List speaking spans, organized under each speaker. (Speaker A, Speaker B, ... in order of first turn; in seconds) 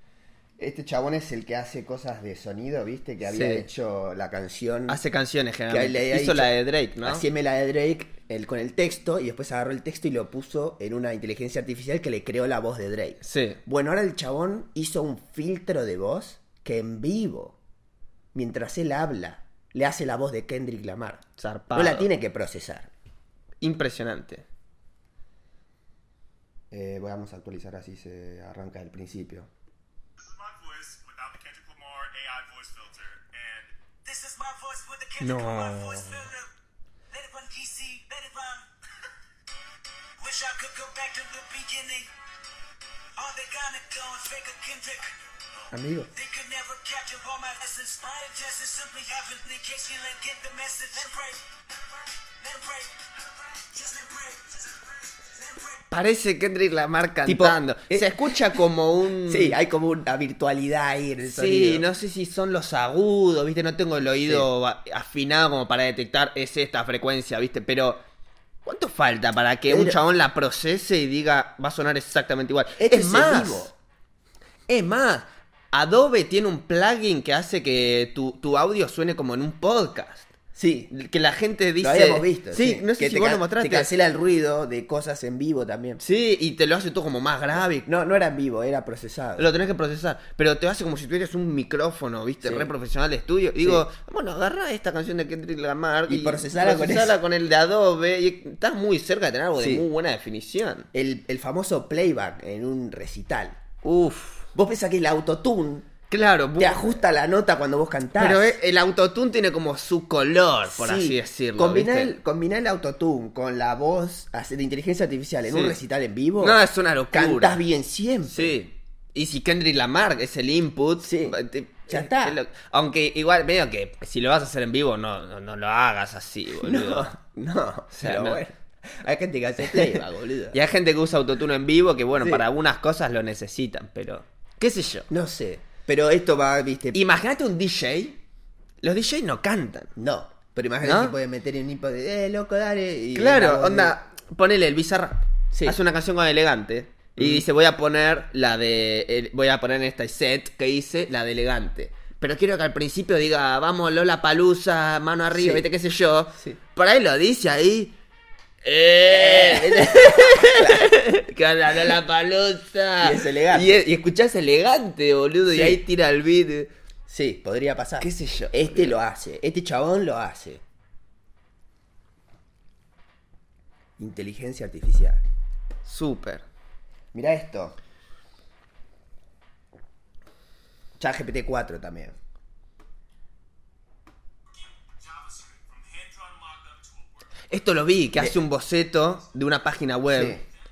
Speaker A: 0.6-5.0, 5.7-17.6, 18.3-22.9, 26.7-29.5, 45.7-46.1, 57.2-58.6, 59.3-61.9, 64.2-64.5, 69.7-70.0, 72.8-73.7, 80.5-80.9, 81.8-86.0, 87.5-89.5, 92.4-92.7, 93.6-93.8, 96.1-97.2, 99.6-99.9, 100.9-103.6, 104.5-105.9, 106.6-108.5, 110.7-118.6, 121.0-121.4, 121.9-122.4, 126.6-130.6, 132.2-132.4, 135.1-137.0, 140.0-143.9, 145.5-145.8, 147.2-147.4, 155.3-155.7, 159.1-161.0, 163.0-163.8, 165.5-165.8, 167.1-170.6, 174.0-175.2, 177.1-177.8, 181.0-182.2, 188.1-188.4, 190.1-190.4
Speaker B: 3.2-3.7, 4.9-7.2, 13.2-13.6, 21.4-22.1, 23.6-24.4, 35.2-36.3, 55.9-59.6, 61.3-68.0, 68.7-73.7, 74.7-80.3, 80.9-83.9, 86.0-87.9, 89.4-100.9, 103.8-104.5, 106.1-107.0, 108.2-112.2, 115.5-115.8, 116.4-117.6, 118.3-127.2, 127.9-128.4, 129.6-130.0, 130.5-135.1, 136.9-138.2, 138.8-139.9, 140.8-141.2, 143.2-157.9, 158.6-166.7, 168.0-169.0, 175.8-176.4, 187.5-190.4
Speaker C: 30.2-33.8, 184.5-187.4
Speaker D: 34.0-36.5, 37.1-38.7, 40.2-42.1, 43.2-55.8